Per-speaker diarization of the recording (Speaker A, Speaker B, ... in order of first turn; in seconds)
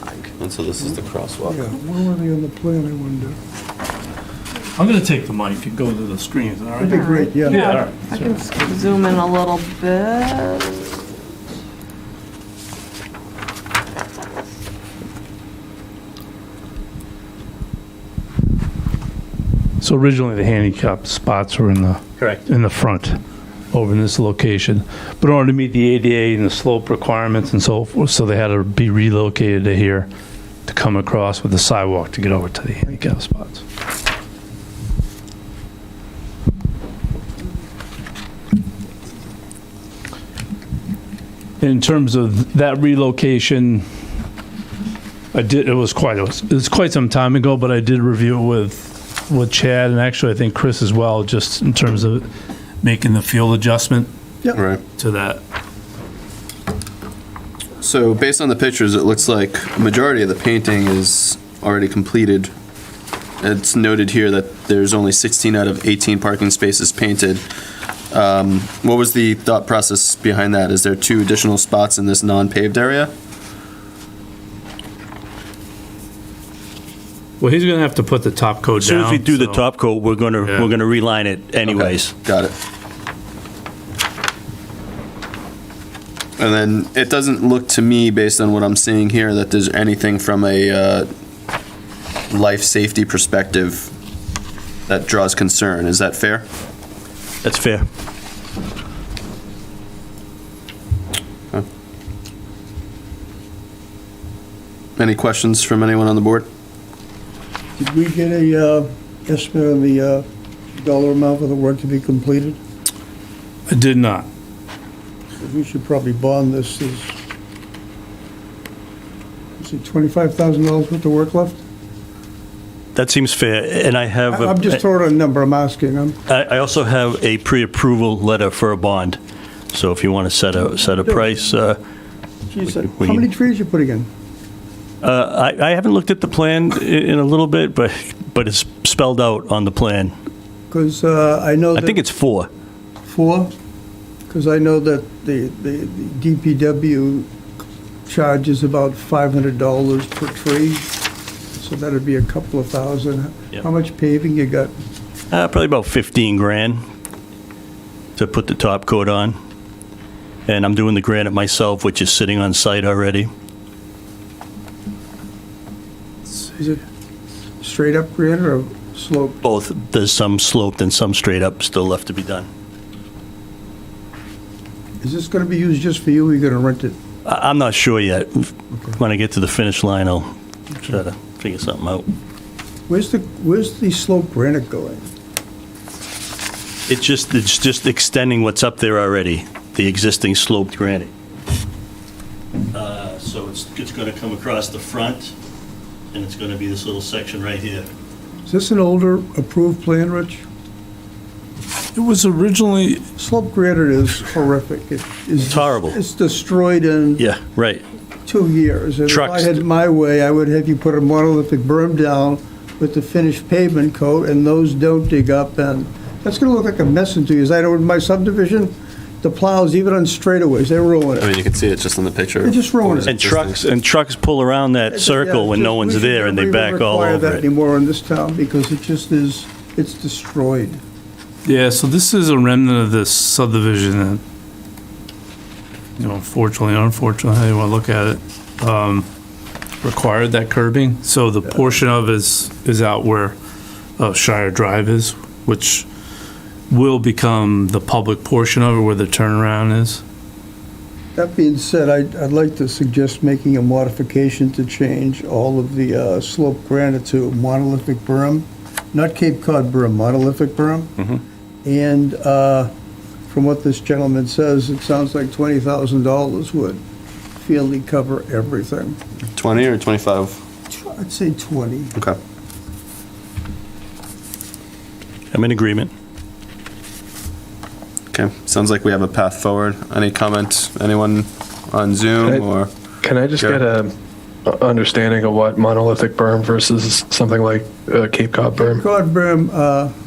Speaker A: 0.4-1.7, 54.5-54.8, 57.8-62.5, 63.4-67.4, 68.1-73.1, 81.6-82.5, 86.4-91.1, 92.3-93.9, 94.9-96.4, 105.0-106.5, 221.2-223.7, 269.3-270.4, 278.1-282.7
Speaker B: 1.4-3.4, 6.8-7.6, 107.8-112.6, 115.4-117.2, 119.6-121.6, 124.3-126.2, 132.5-134.1, 140.7-142.0, 143.1-143.5, 144.3-147.3, 148.1-150.9, 151.6-154.7, 166.3-166.8, 167.6-169.4, 175.0-177.0, 182.9-185.1, 198.5-200.4, 203.2-207.2, 208.2-221.3, 222.4-223.2, 224.9-230.8, 251.1-260.9, 261.6-262.7, 263.3-266.8, 267.4-269.0, 270.7-271.9, 288.6-289.9
Speaker C: 4.8-8.7, 19.8-23.2, 23.7-30.1, 30.7-33.6, 41.6-43.8, 45.3-52.3, 52.8-54.1, 55.0-55.4, 77.4-79.6, 80.4-80.7, 113.7-114.3, 201.9-203.0, 231.4-234.2, 236.0-239.1, 239.8-243.3, 244.0-245.8, 246.7-250.0
Speaker D: 8.5-10.7
Speaker E: 78.8-82.1, 97.4-97.8, 122.9-124.8, 126.3-129.2, 129.7-131.8, 132.8-133.3, 135.0-140.1, 141.7-142.5, 155.3-156.8, 158.2-159.3, 160.5-163.3, 169.4-172.5, 177.2-182.1, 186.9-191.1, 192.7-195.3, 196.1-197.9, 205.4-206.0, 207.2-207.8, 209.1-209.6, 223.1-227.4, 275.3-275.9
Speaker F: 282.2-283.9, 284.4-288.8